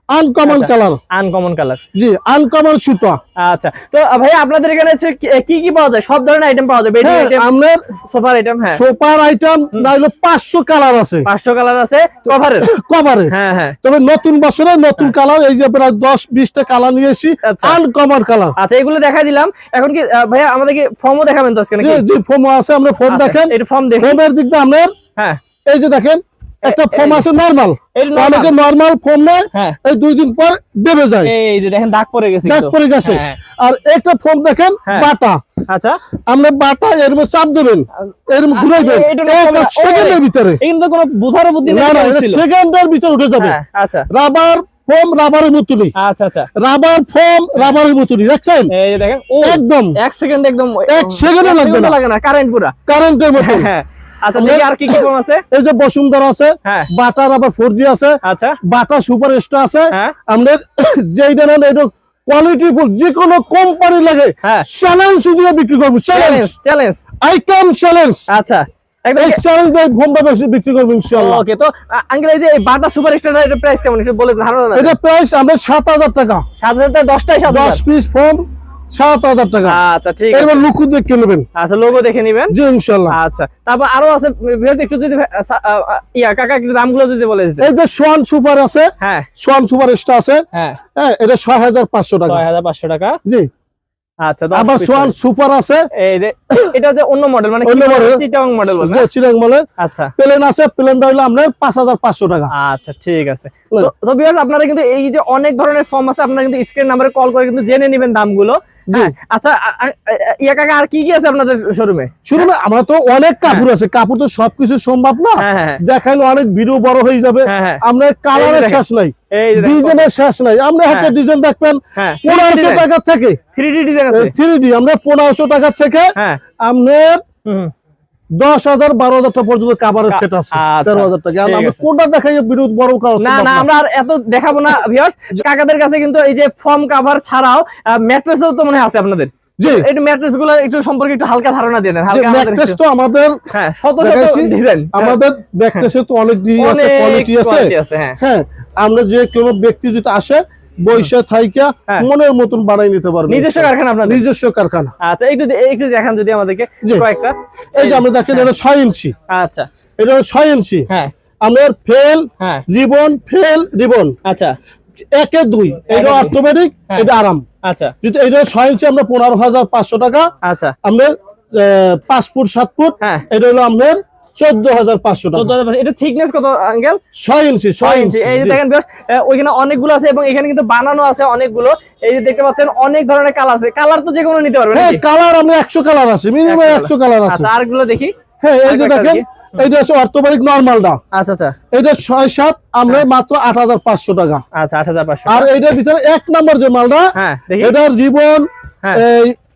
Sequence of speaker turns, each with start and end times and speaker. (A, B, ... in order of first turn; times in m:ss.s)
0:00.1-0:01.0 A
0:00.4-0:01.8 B
0:02.0-0:03.2 A
0:03.4-0:07.5 B
0:07.0-0:07.8 A
0:08.0-0:08.8 B
0:08.7-0:11.3 A
0:11.2-0:12.7 B
0:12.6-0:13.3 A
0:13.3-0:13.8 B
0:13.8-0:18.6 A
0:17.4-0:17.8 B
0:18.6-0:22.0 B
0:21.8-0:24.9 A
0:23.1-0:24.2 B
0:25.7-0:31.3 A
0:26.6-0:27.3 B
0:28.0-0:28.6 B
0:31.2-0:33.4 B
0:32.4-0:35.4 A
0:35.7-0:36.0 B
0:36.3-0:40.6 A
0:38.5-0:42.4 B
0:41.7-0:43.6 A
0:43.4-0:44.1 B
0:44.1-0:45.9 A
0:46.0-0:46.5 B
0:46.6-0:48.7 A
0:48.7-0:52.7 B
0:49.4-0:50.0 A
0:50.9-0:52.0 A
0:52.9-0:53.7 A
0:53.4-0:55.4 B
0:54.4-1:06.5 A
0:58.2-0:58.6 B
1:06.1-1:07.0 B
1:07.2-1:08.3 A
1:08.3-1:09.4 B
1:09.2-1:11.4 A
1:11.1-1:15.0 B
1:14.8-1:16.4 A
1:16.6-1:17.8 B
1:17.5-1:19.8 A
1:19.6-1:20.7 B
1:20.3-1:21.4 A
1:21.6-1:22.5 B
1:22.5-1:23.2 A
1:23.1-1:27.7 B
1:27.6-1:30.4 A
1:29.0-1:29.3 B
1:30.5-1:30.8 B
1:31.0-1:32.4 A
1:32.2-1:33.2 B
1:34.2-1:35.1 B
1:34.5-1:35.9 A
1:36.0-1:39.1 B
1:37.6-1:38.2 A
1:38.8-1:39.6 A
1:39.8-1:40.1 B
1:40.2-1:42.5 A
1:42.5-1:52.5 B
1:52.3-2:03.4 A
1:55.4-1:55.8 B
1:57.4-2:00.1 B
2:00.9-2:01.1 B
2:02.0-2:02.9 B
2:03.6-2:04.4 B
2:04.1-2:06.1 A
2:06.2-2:06.4 B
2:06.6-2:07.2 A
2:07.5-2:07.7 B
2:08.4-2:13.7 A
2:10.1-2:11.8 B
2:13.2-2:22.8 B
2:19.6-2:19.9 A
2:22.1-2:23.4 A
2:23.5-2:25.2 B
2:24.0-2:34.9 A
2:26.6-2:28.2 B
2:33.3-2:34.2 B
2:35.0-2:38.5 B
2:37.8-2:39.1 A
2:39.3-2:39.7 B
2:40.0-2:40.9 A
2:41.4-2:44.2 A
2:44.2-2:44.6 B
2:45.2-2:47.4 A
2:45.9-2:46.4 B
2:47.6-2:47.9 B
2:48.0-2:50.3 A
2:50.4-2:50.8 B
2:50.8-2:55.5 A
2:55.3-2:57.0 B
2:57.2-2:58.6 A
2:57.8-3:05.0 B
3:04.7-3:07.5 A
3:06.5-3:08.1 B
3:08.4-3:11.0 A
3:08.6-3:09.7 B
3:11.1-3:11.6 B
3:11.7-3:14.4 A
3:14.6-3:15.5 B
3:15.3-3:17.1 A
3:17.2-3:17.8 B
3:17.6-3:19.4 A